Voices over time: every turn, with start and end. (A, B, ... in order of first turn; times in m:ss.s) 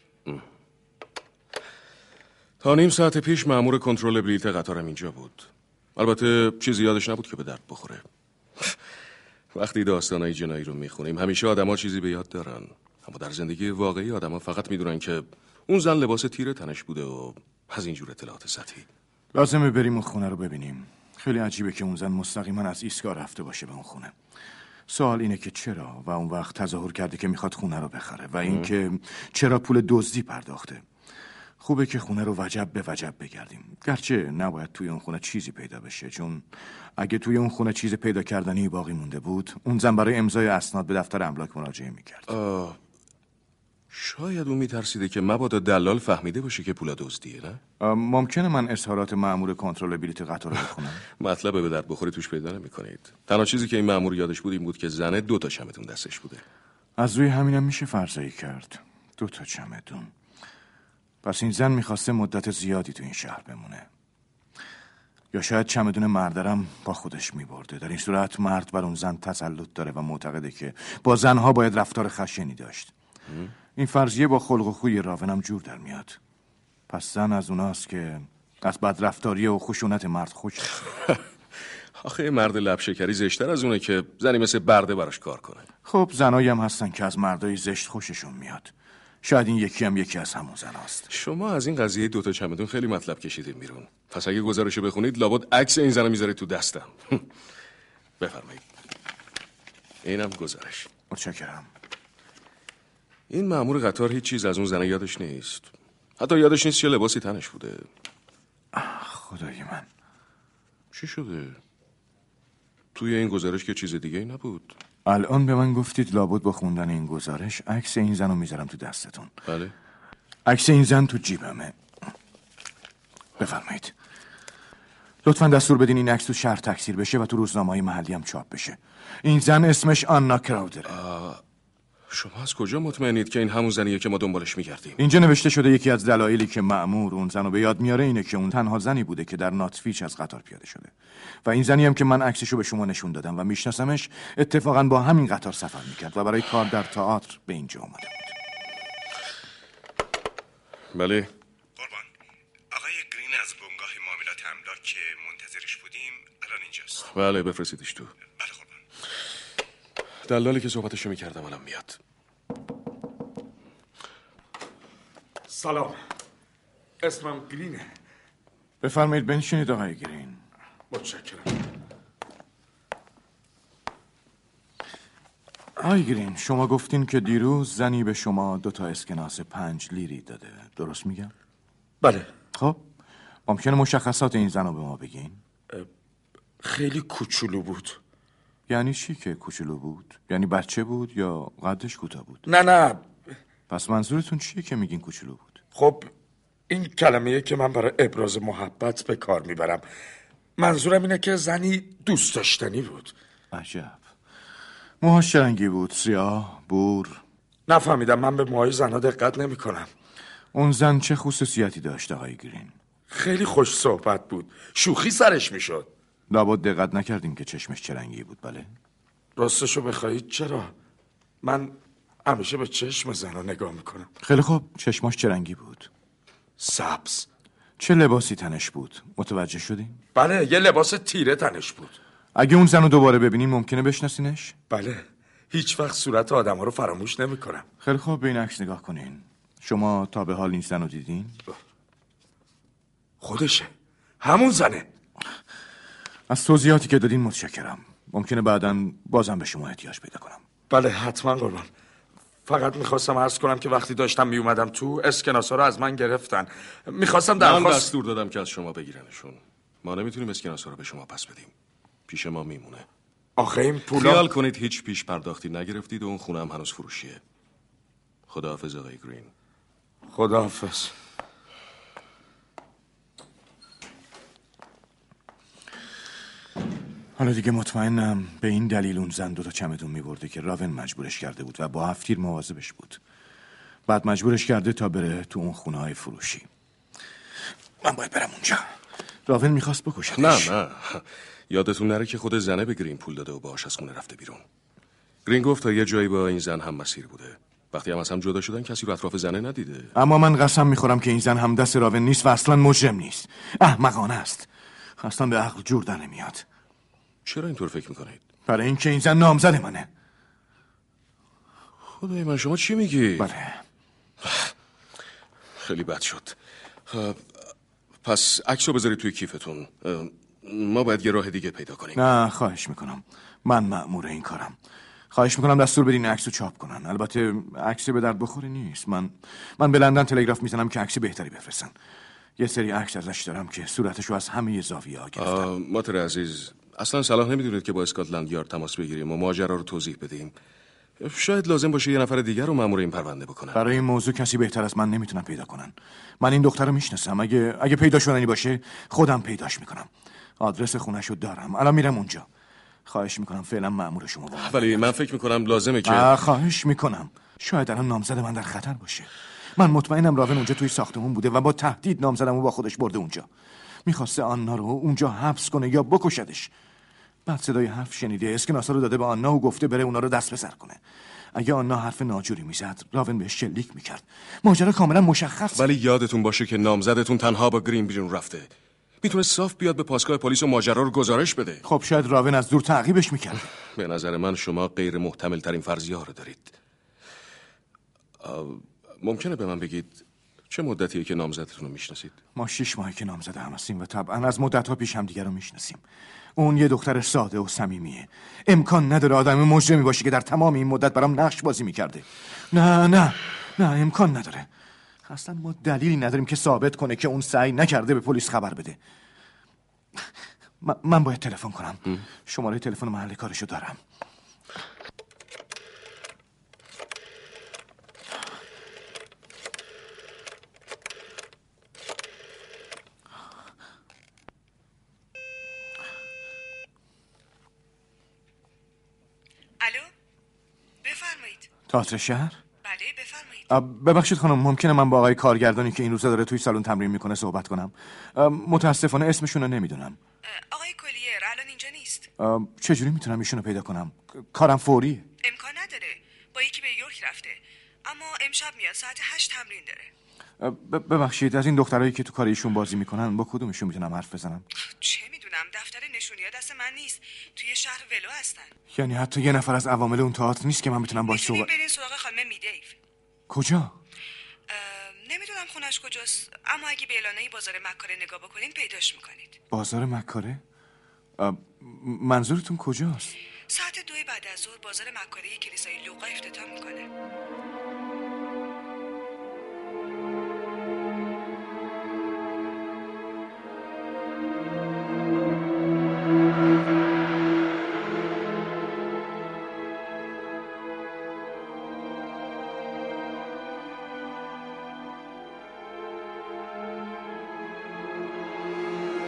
0:02.6-0:08.0 A
0:09.5-0:18.8 A
0:19.3-0:24.1 B
0:24.9-0:30.8 B
0:31.6-0:42.3 B
0:42.3-0:42.8 A
0:43.9-0:47.6 A
0:47.8-0:51.0 B
0:51.2-0:56.4 A
0:57.0-1:00.1 B
1:01.2-1:03.9 B
1:05.3-1:12.9 B
1:13.8-1:16.2 B
1:16.9-1:20.8 B
1:22.0-1:25.7 A
1:25.8-1:31.1 B
1:31.1-1:37.2 A
1:38.2-1:38.6 A
1:40.0-1:40.9 A
1:41.1-1:41.7 B
1:43.3-1:47.8 A
1:48.7-1:49.9 B
1:50.9-1:51.6 A
1:52.9-1:54.7 A
1:55.0-1:59.3 B
1:59.5-1:59.7 A
2:00.4-2:01.7 B
2:03.4-2:03.9 B
2:05.2-2:11.0 B
2:10.9-2:11.4 A
2:12.1-2:15.0 A
2:15.0-2:20.9 B
2:21.4-2:28.3 B
2:30.9-2:31.3 A
2:32.8-2:36.1 C
2:36.9-2:38.1 A
2:40.2-2:42.0 A
2:45.5-2:46.0 D
2:47.0-2:47.8 D
2:48.8-2:50.4 B
2:50.9-2:51.5 D
2:55.8-3:01.3 B
3:02.5-3:02.8 B
3:03.4-3:05.4 B
3:06.6-3:08.0 D
3:08.7-3:12.4 B
3:12.5-3:13.0 D
3:13.7-3:15.6 B
3:15.8-3:16.1 D
3:16.7-3:19.8 D
3:20.6-3:23.1 D
3:23.5-3:24.0 B
3:25.0-3:27.2 B
3:27.7-3:29.9 D
3:30.5-3:32.7 B
3:33.1-3:35.9 D
3:36.3-3:38.7 B
3:39.4-3:40.7 D
3:41.4-3:41.7 D
3:42.2-3:44.1 D
3:44.2-3:45.9 B
3:46.6-3:47.3 D
3:47.8-3:50.0 B
3:50.2-3:52.0 D
3:52.3-3:54.5 B
3:54.7-3:57.6 D
3:57.8-4:01.4 B
4:03.2-4:03.7 D
4:04.2-4:04.8 D
4:06.3-4:10.4 B
4:10.7-4:11.7 D
4:12.5-4:17.9 D
4:17.4-4:21.5 A
4:22.1-4:22.8 A
4:23.4-4:24.3 D
4:23.9-4:27.2 A
4:28.3-4:29.3 A
4:30.1-4:30.9 D
4:37.2-4:43.0 B
4:43.9-4:46.5 B
4:47.8-4:48.6 B
4:49.3-4:50.5 B
4:50.2-4:54.4 A
4:55.2-4:59.9 A
4:59.9-5:04.5 B
5:05.0-5:06.4 B
5:07.2-5:08.2 A
5:08.5-5:09.9 B
5:12.0-5:13.3 A
5:13.2-5:13.6 B
5:14.2-5:14.5 A
5:15.6-5:16.4 A
5:16.9-5:17.2 A
5:18.0-5:22.0 A
5:21.9-5:24.6 B
5:25.1-5:31.7 B
5:32.4-5:35.5 B
5:35.2-5:40.3 A
5:41.0-5:43.6 A
5:43.5-5:52.2 B
5:52.8-5:54.9 B
5:54.4-5:56.2 A
5:55.8-6:03.3 B
6:03.8-6:06.5 B
6:07.2-6:10.8 B
6:11.3-6:15.7 B
6:15.5-6:18.5 A
6:19.0-6:21.6 A
6:21.6-6:23.4 B
6:23.8-6:26.6 A
6:28.2-6:32.1 A
6:32.3-6:35.8 B
6:36.4-6:44.5 B
6:45.0-6:48.8 B
6:50.6-6:53.8 B
7:09.6-7:09.9 E
7:10.8-7:11.5 E
7:11.7-7:12.4 B
7:12.6-7:13.5 E
7:13.5-7:20.0 B
7:20.2-7:22.1 E
7:22.2-7:25.0 B
7:25.2-7:29.9 E
7:30.4-7:34.4 B
7:34.8-7:38.5 E
7:38.7-7:41.5 B
7:41.0-7:42.8 E
7:43.3-7:43.7 B
7:44.5-7:49.4 E
7:49.5-7:50.4 B
7:51.2-7:53.2 B
7:53.5-7:56.9 E